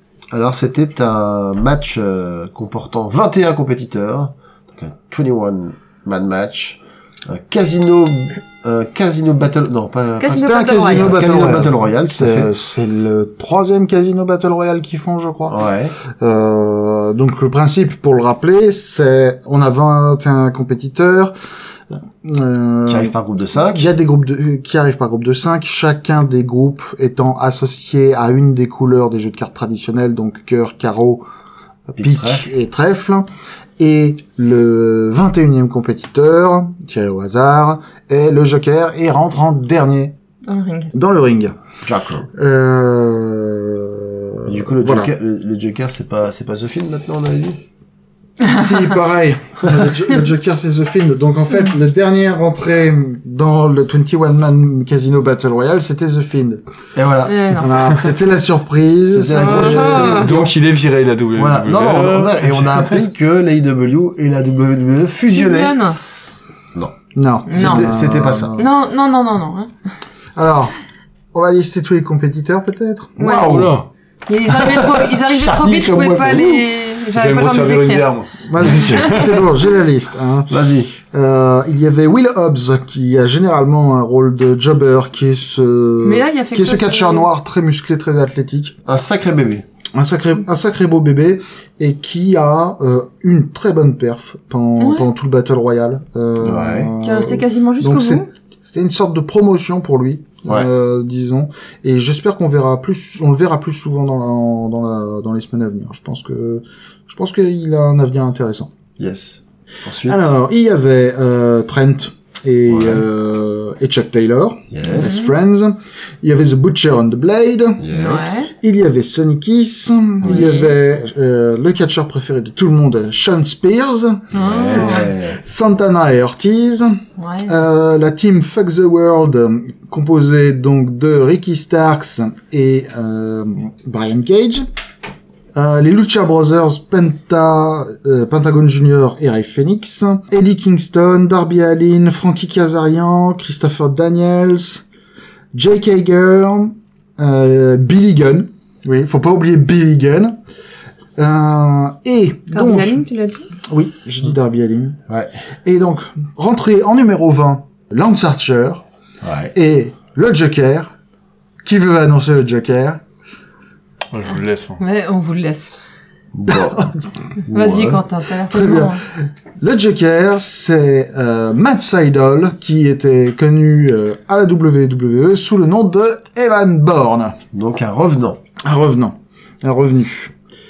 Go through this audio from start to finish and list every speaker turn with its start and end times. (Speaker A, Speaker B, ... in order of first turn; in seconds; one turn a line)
Speaker A: 0.3-12.5
Speaker B: 10.2-11.3
Speaker C: 10.3-21.3
Speaker A: 15.5-15.9
Speaker C: 21.9-31.2
Speaker A: 22.9-23.9
Speaker C: 31.9-33.3
Speaker A: 32.0-32.5
Speaker C: 33.8-40.1
Speaker B: 40.5-40.9
Speaker C: 40.9-41.6
Speaker A: 41.9-42.3
Speaker C: 42.3-45.1
Speaker A: 44.5-47.6
Speaker C: 48.4-56.6
Speaker A: 57.0-57.6
Speaker B: 57.2-57.7
Speaker C: 57.5-60.1
Speaker A: 59.1-60.5
Speaker B: 59.4-60.3
Speaker D: 60.0-63.0
Speaker A: 61.4-65.8
Speaker B: 65.3-66.0
Speaker C: 67.1-68.7
Speaker B: 67.5-67.9
Speaker A: 67.5-68.6
Speaker B: 68.6-69.7
Speaker C: 70.3-70.7
Speaker C: 71.3-73.8
Speaker B: 73.2-73.7
Speaker D: 73.2-73.9
Speaker B: 74.3-78.1
Speaker A: 74.6-76.7
Speaker D: 77.1-79.5
Speaker C: 78.5-88.8
Speaker A: 80.5-80.9
Speaker B: 86.0-87.3
Speaker A: 88.9-89.6
Speaker C: 90.0-108.7
Speaker B: 94.8-95.1
Speaker A: 96.4-96.9
Speaker B: 97.0-98.3
Speaker A: 109.0-110.3
Speaker C: 110.1-117.9
Speaker A: 112.7-113.0
Speaker A: 114.7-115.2
Speaker B: 114.9-115.3
Speaker A: 117.8-118.4
Speaker B: 117.9-118.5
Speaker C: 118.5-134.7
Speaker B: 120.2-120.8
Speaker B: 124.3-125.2
Speaker A: 124.3-125.4
Speaker B: 127.2-127.5
Speaker C: 135.5-144.8
Speaker C: 145.5-150.3
Speaker C: 151.2-153.0
Speaker B: 152.5-153.5
Speaker C: 153.7-155.0
Speaker C: 155.6-158.8
Speaker A: 159.2-159.5
Speaker C: 159.5-160.9
Speaker C: 161.6-163.0
Speaker D: 164.1-164.8
Speaker B: 164.8-165.7
Speaker A: 166.3-166.9
Speaker C: 166.5-166.9
Speaker A: 167.5-168.0
Speaker B: 167.5-169.0
Speaker C: 168.5-169.0
Speaker C: 169.6-177.4
Speaker A: 177.5-178.4
Speaker C: 178.6-180.3